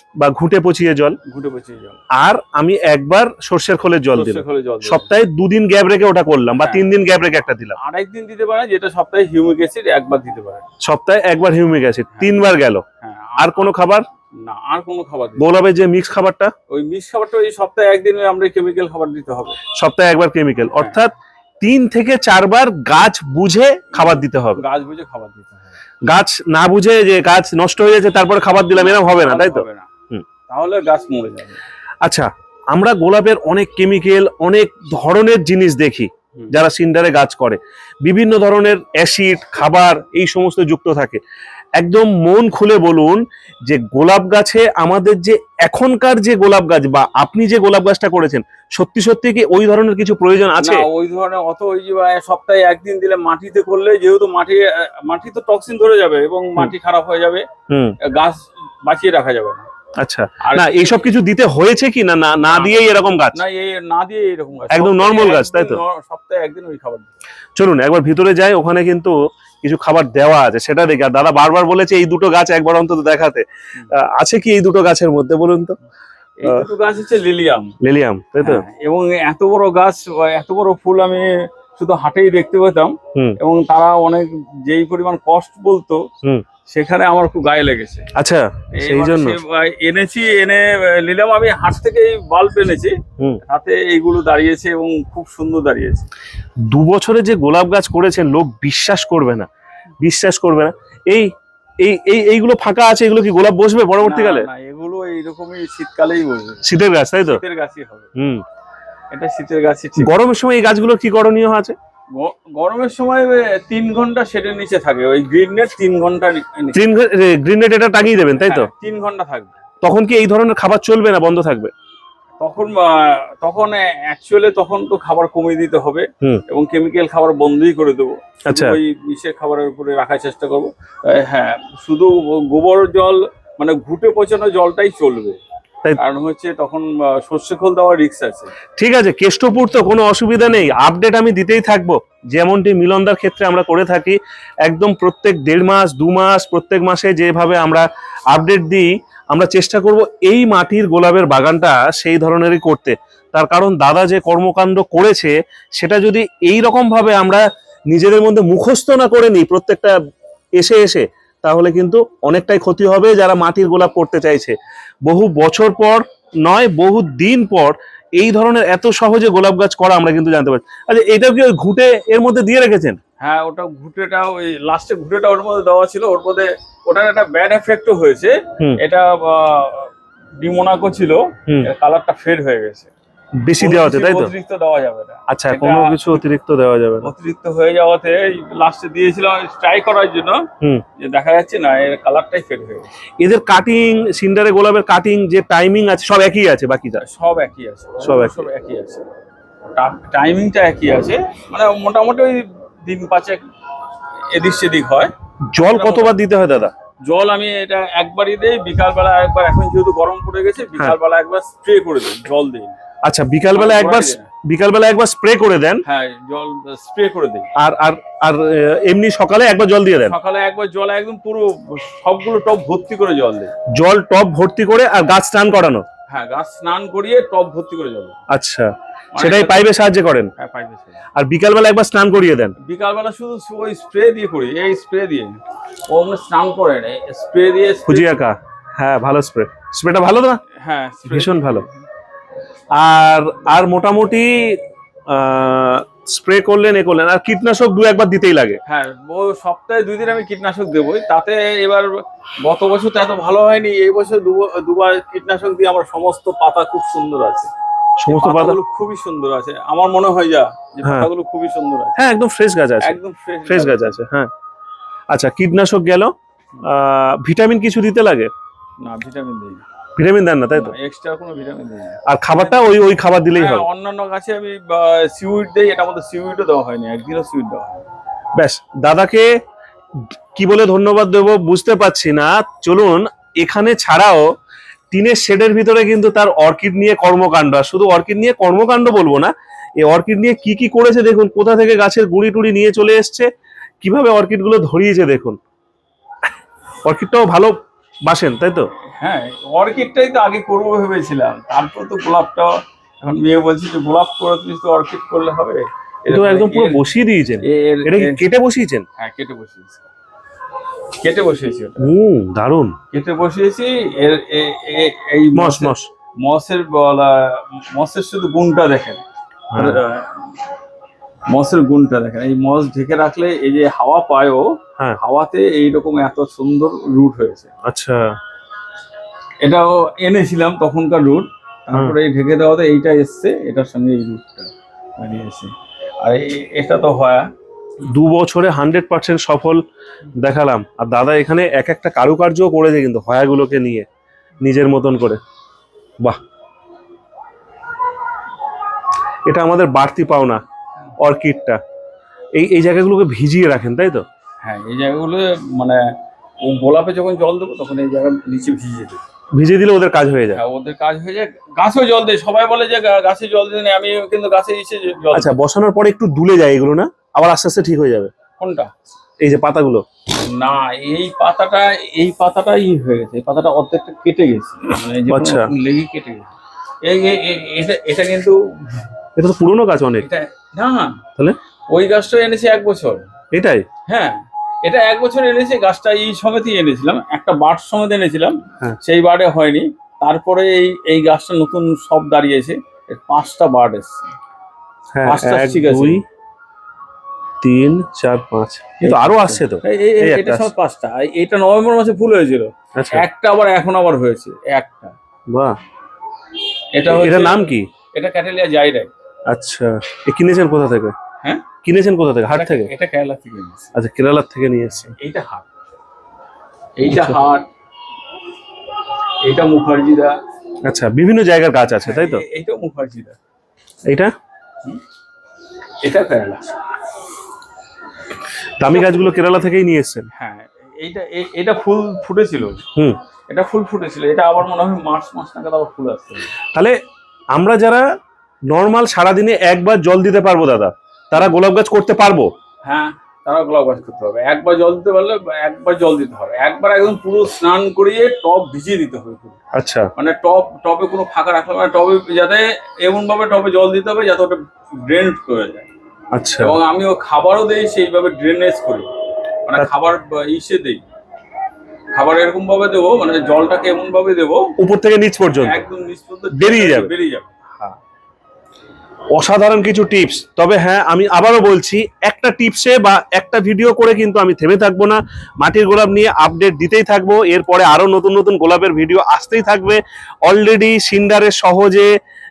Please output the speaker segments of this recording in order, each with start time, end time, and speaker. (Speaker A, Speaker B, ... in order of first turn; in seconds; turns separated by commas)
Speaker A: 0.2-1.2, Speaker B: 1.3-2.0, Speaker A: 2.1-7.8, Speaker B: 4.1-5.1, Speaker B: 6.6-6.9, Speaker B: 7.8-10.7, Speaker A: 10.8-12.8, Speaker B: 12.2-12.5, Speaker B: 13.0-13.7, Speaker A: 13.4-14.1, Speaker B: 14.3-15.5, Speaker A: 15.4-16.5, Speaker B: 16.7-19.6, Speaker A: 19.7-24.6, Speaker B: 23.9-25.8, Speaker A: 26.1-30.2, Speaker B: 28.7-29.9, Speaker B: 30.5-31.6, Speaker A: 32.0-41.2, Speaker A: 41.8-50.9, Speaker B: 50.6-57.5, Speaker A: 57.7-58.0, Speaker B: 58.0-59.7, Speaker A: 60.0-63.4, Speaker B: 60.4-61.1, Speaker B: 62.5-67.2, Speaker A: 64.7-65.8, Speaker A: 67.6-75.8, Speaker B: 76.4-77.8, Speaker A: 77.8-78.6, Speaker B: 78.4-86.1, Speaker B: 86.7-88.1, Speaker A: 88.2-89.4, Speaker B: 88.7-96.1, Speaker A: 96.6-99.5, Speaker A: 100.0-104.5, Speaker B: 104.0-106.7, Speaker A: 106.7-107.4, Speaker B: 107.3-108.1, Speaker A: 108.2-108.4, Speaker B: 109.1-110.1, Speaker A: 110.0-111.8, Speaker B: 112.1-116.8, Speaker A: 116.8-118.7, Speaker B: 118.4-119.6, Speaker A: 119.8-121.7, Speaker B: 122.4-135.4, Speaker A: 128.5-128.8, Speaker B: 136.0-138.5, Speaker A: 138.8-159.9, Speaker A: 160.6-173.0, Speaker B: 173.2-182.9, Speaker A: 183.4-184.3, Speaker B: 183.6-186.1, Speaker A: 185.3-187.1, Speaker B: 187.0-190.5, Speaker B: 191.0-192.9, Speaker A: 193.2-197.0, Speaker B: 197.0-199.1, Speaker A: 198.0-198.5, Speaker B: 199.7-203.4, Speaker B: 204.3-205.1, Speaker A: 205.5-206.7, Speaker B: 205.7-206.1, Speaker B: 207.0-212.8, Speaker A: 213.0-215.8, Speaker B: 213.6-214.3, Speaker B: 215.9-217.5, Speaker A: 217.6-220.2, Speaker B: 220.0-223.5, Speaker A: 223.7-225.9, Speaker B: 226.1-228.2, Speaker A: 228.3-230.3, Speaker B: 229.1-229.7, Speaker B: 230.4-231.0, Speaker A: 231.2-232.6, Speaker B: 232.6-238.2, Speaker A: 237.9-240.4, Speaker B: 240.6-241.8, Speaker A: 241.1-241.7, Speaker A: 242.8-248.6, Speaker B: 248.7-257.5, Speaker A: 258.0-258.6, Speaker B: 258.1-262.0, Speaker A: 260.8-261.1, Speaker A: 262.0-264.3, Speaker B: 262.8-264.0, Speaker A: 265.1-266.1, Speaker A: 266.6-268.3, Speaker B: 268.8-269.6, Speaker A: 270.0-270.8, Speaker B: 270.5-272.7, Speaker A: 272.1-273.7, Speaker B: 273.3-277.9, Speaker A: 278.4-279.4, Speaker A: 280.4-284.3, Speaker A: 284.9-293.3, Speaker A: 293.8-295.4, Speaker A: 296.9-297.6, Speaker A: 298.1-298.7, Speaker B: 299.0-306.8, Speaker A: 306.1-308.9, Speaker B: 307.4-308.2, Speaker B: 309.0-309.9, Speaker B: 311.0-311.9, Speaker A: 311.8-312.8, Speaker B: 312.9-319.0, Speaker A: 315.4-315.9, Speaker A: 319.5-319.8, Speaker B: 319.6-320.2, Speaker B: 321.3-327.5, Speaker A: 327.6-328.2, Speaker B: 329.4-337.3, Speaker A: 337.9-339.6, Speaker A: 340.2-343.9, Speaker A: 344.4-345.2, Speaker A: 349.3-350.4, Speaker A: 351.0-351.6, Speaker A: 352.4-354.1, Speaker B: 354.4-359.0, Speaker A: 359.4-360.4, Speaker B: 360.3-365.3, Speaker A: 365.1-368.1, Speaker B: 368.4-368.8, Speaker A: 369.2-369.9, Speaker B: 370.3-378.8, Speaker A: 375.1-375.5, Speaker A: 379.2-380.1, Speaker B: 380.0-381.0, Speaker B: 381.7-383.1, Speaker A: 383.3-383.7, Speaker B: 383.9-394.1, Speaker A: 394.9-396.0, Speaker B: 395.1-396.0, Speaker A: 397.4-400.5, Speaker B: 398.8-404.9, Speaker A: 402.8-403.1, Speaker A: 405.3-405.6, Speaker B: 406.8-408.9, Speaker A: 406.9-407.7, Speaker A: 409.3-410.9, Speaker A: 411.6-412.7, Speaker B: 412.3-413.8, Speaker A: 413.8-414.9, Speaker B: 415.0-415.5, Speaker B: 416.8-417.5, Speaker A: 416.9-417.2, Speaker B: 419.2-420.1, Speaker A: 420.6-422.2, Speaker B: 421.8-423.2, Speaker A: 423.9-424.1, Speaker B: 425.8-426.5, Speaker A: 428.6-430.1, Speaker B: 428.7-429.1, Speaker B: 430.1-432.6, Speaker B: 433.3-436.3, Speaker A: 437.3-437.9, Speaker A: 438.5-442.3, Speaker B: 442.6-449.4, Speaker A: 449.5-449.9, Speaker B: 450.0-455.7, Speaker A: 456.1-456.6, Speaker B: 456.4-458.9, Speaker B: 459.5-460.8, Speaker B: 461.9-464.5, Speaker A: 464.6-465.6, Speaker B: 465.4-467.3, Speaker A: 466.3-466.9, Speaker A: 469.1-481.9